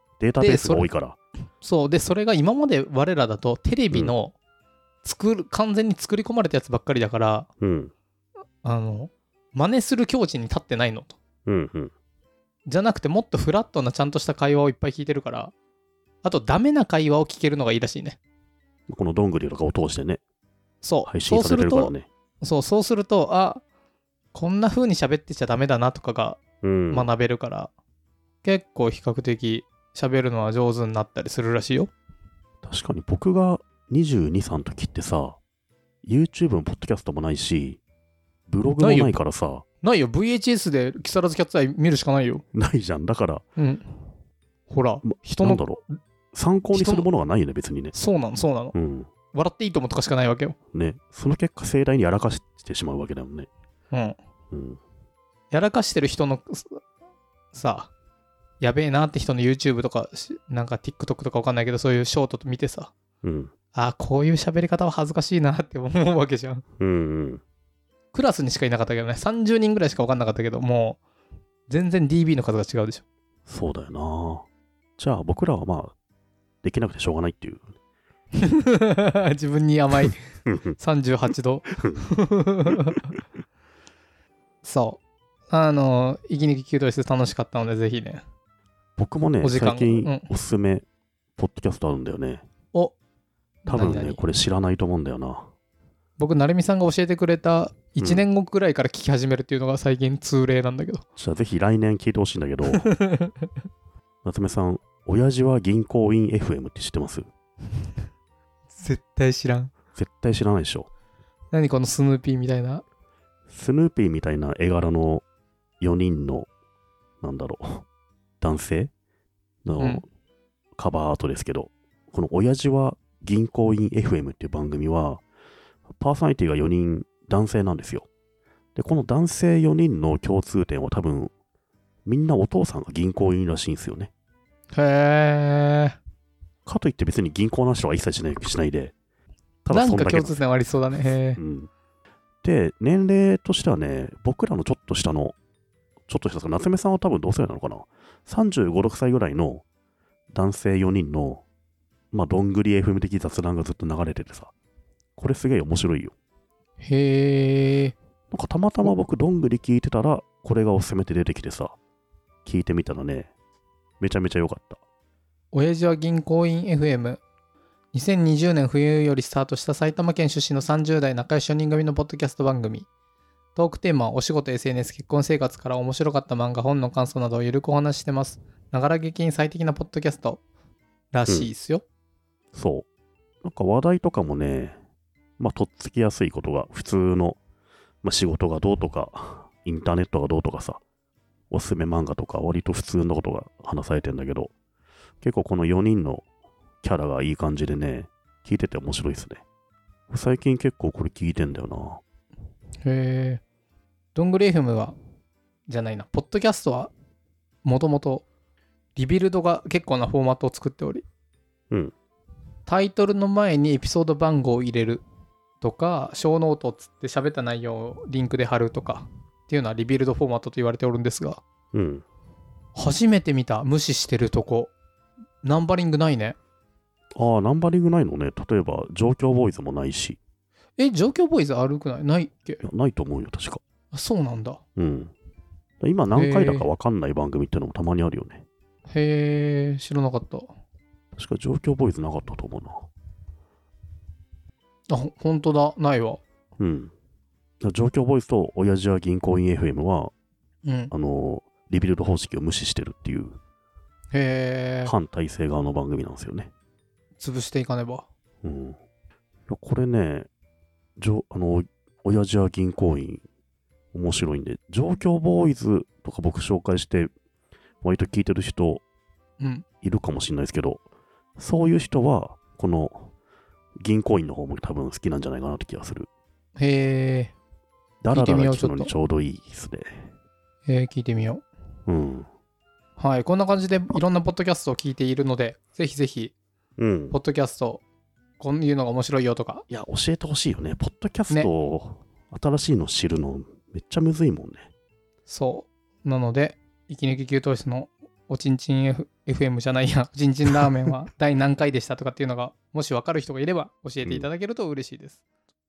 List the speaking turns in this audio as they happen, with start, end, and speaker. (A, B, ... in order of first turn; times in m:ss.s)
0:00.2-0:01.2 A
0:00.4-0:00.9 B
0:01.6-0:04.3 B
0:05.0-0:07.5 B
0:07.6-0:07.9 A
0:08.6-0:11.2 B
0:11.4-0:11.9 A
0:12.7-0:15.5 B
0:16.2-0:18.2 B
0:18.9-0:20.2 A
0:20.8-0:23.6 B
0:21.0-0:22.1 A
0:24.3-0:27.7 B
0:26.6-0:27.1 A
0:28.4-0:31.9 B
0:32.6-0:35.4 A
0:36.0-0:37.8 A
0:38.5-0:39.6 A
0:38.8-0:39.2 B
0:39.8-0:42.4 B
0:42.5-0:43.4 A
0:43.6-0:43.8 B
0:44.7-0:46.0 B
0:45.0-0:45.8 A
0:46.3-0:47.9 A
0:46.7-0:47.1 B
0:47.9-0:48.7 B
0:48.7-0:49.1 A
0:49.3-0:50.6 B
0:50.7-0:53.5 A
0:54.5-0:54.8 A
0:55.5-0:56.8 B
0:57.5-0:57.9 B
0:58.6-1:02.9 B
1:03.2-1:03.5 A
1:03.7-1:06.6 B
1:06.8-1:07.4 A
1:08.1-1:11.0 B
1:11.7-1:13.0 B
1:13.5-1:14.4 A
1:15.0-1:15.9 A
1:16.6-1:17.7 A
1:18.4-1:20.2 B
1:20.4-1:20.8 A
1:20.8-1:23.0 B
1:24.6-1:28.2 B
1:29.0-1:30.8 A
1:29.4-1:30.3 B
1:31.4-1:32.4 A
1:33.6-1:34.2 B
1:33.6-1:35.5 A
1:36.2-1:41.0 B
1:38.0-1:38.2 A
1:41.2-1:42.9 A
1:42.7-1:43.4 B
1:44.2-1:47.3 A
1:48.7-1:49.7 B
1:49.9-1:50.9 A
1:51.5-1:52.8 B
1:53.5-1:55.2 A
1:55.8-1:56.5 A
1:57.2-1:57.8 A
1:58.4-1:58.9 A
1:59.6-2:00.0 A
1:59.8-2:00.0 B
2:00.8-2:05.2 A
2:06.0-2:08.1 A
2:08.7-2:11.3 A
2:12.0-2:14.1 A
2:14.7-2:16.0 B
2:16.6-2:18.9 A
2:19.6-2:20.4 A
2:19.7-2:21.4 B
2:21.4-2:21.7 A
2:22.4-2:25.4 A
2:26.1-2:29.6 A
2:30.3-2:31.4 A
2:32.1-2:34.5 A
2:35.2-2:36.1 A
2:36.8-2:37.9 B
2:38.3-2:41.8 A
2:42.4-2:43.3 A
2:44.0-2:44.8 A
2:45.5-2:47.2 B
2:47.9-2:52.9 B
2:53.5-3:00.4 B
3:01.1-3:01.8 B
3:02.5-3:02.8 A
3:03.4-3:04.8 A
3:05.4-3:07.4 A
3:08.0-3:10.8 A
3:11.5-3:14.5 A
3:15.2-3:16.2 A
3:16.8-3:19.4 A
3:20.1-3:22.0 A
3:22.8-3:23.4 B
3:24.1-3:24.9 B
3:25.7-3:26.9 B
3:27.6-3:28.2 B
3:29.0-3:31.0 B
3:32.7-3:35.0 B
3:35.6-3:41.4 B
3:41.7-3:42.0 A
3:42.7-3:44.7 B
3:45.4-3:46.4 B
3:47.2-3:50.2 A
3:50.8-3:52.6 B
3:52.6-3:53.6 A
3:53.9-3:54.6 B
3:54.8-3:55.1 A
3:55.8-3:58.4 A
3:56.1-3:56.7 B
3:58.9-4:00.5 B
4:01.2-4:02.9 A
4:04.9-4:06.2 B
4:06.6-4:06.9 A
4:07.6-4:10.1 A
4:10.6-4:10.9 B
4:10.9-4:13.4 A
4:14.1-4:14.9 B
4:14.8-4:16.5 A
4:17.2-4:18.0 B
4:18.4-4:18.8 A
4:19.5-4:20.3 A
4:21.0-4:23.2 A
4:23.9-4:27.1 A
4:27.8-4:28.8 A
4:29.4-4:29.6 B
4:29.8-4:30.8 A
4:31.4-4:33.1 A
4:33.8-4:36.1 A
4:36.6-4:37.3 B
4:38.0-4:40.0 A
4:38.1-4:38.9 B
4:40.6-4:41.4 B
4:41.9-4:42.3 A
4:43.0-4:46.3 B
4:46.8-4:47.2 A
4:47.1-4:47.8 B
4:48.4-4:49.6 B
4:49.7-4:54.7 A
4:55.3-5:05.2 B
5:04.0-5:04.3 A